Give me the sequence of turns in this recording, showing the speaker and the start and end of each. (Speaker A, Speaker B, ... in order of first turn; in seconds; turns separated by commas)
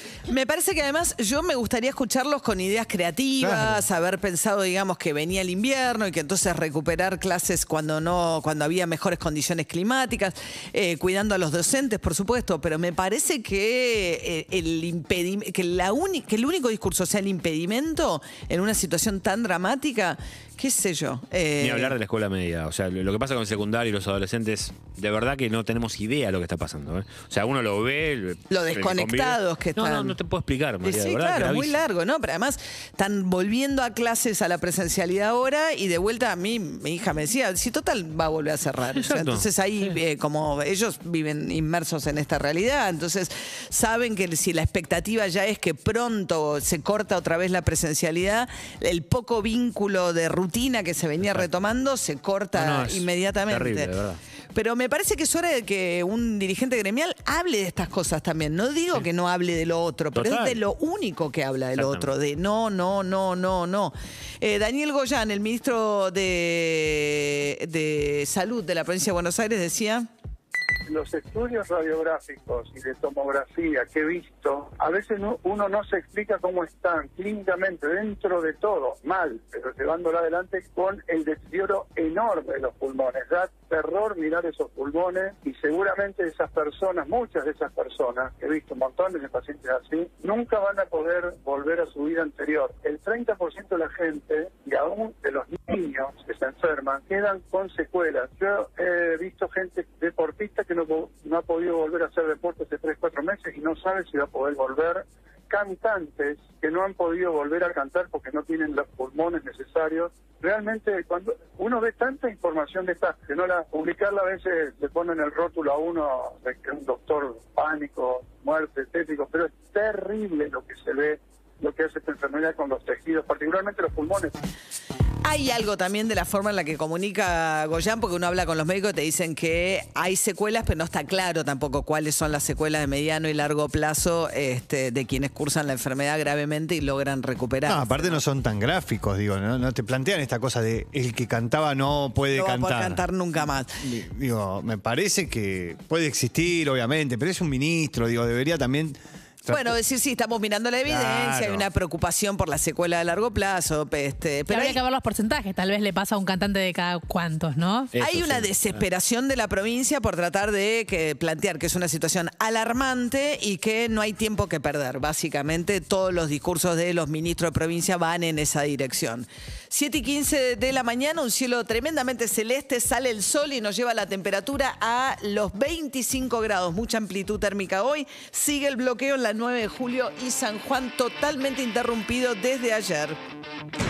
Speaker A: 0.3-22.0, Speaker B: 3.4-3.8, Speaker C: 21.6-31.8, Speaker A: 28.5-30.2, Speaker A: 30.8-54.0, Speaker C: 38.9-40.0, Speaker C: 51.2-51.5, Speaker C: 52.5-54.2, Speaker A: 54.5-70.1, Speaker C: 60.1-60.6, Speaker C: 61.8-62.1, Speaker D: 70.9-124.3, Speaker A: 125.2-138.2, Speaker B: 137.7-143.2, Speaker A: 142.3-143.7, Speaker B: 143.8-149.8, Speaker A: 149.5-154.8, Speaker B: 150.8-151.7, Speaker E: 154.5-157.9, Speaker A: 157.9-183.2, Speaker C: 157.9-158.8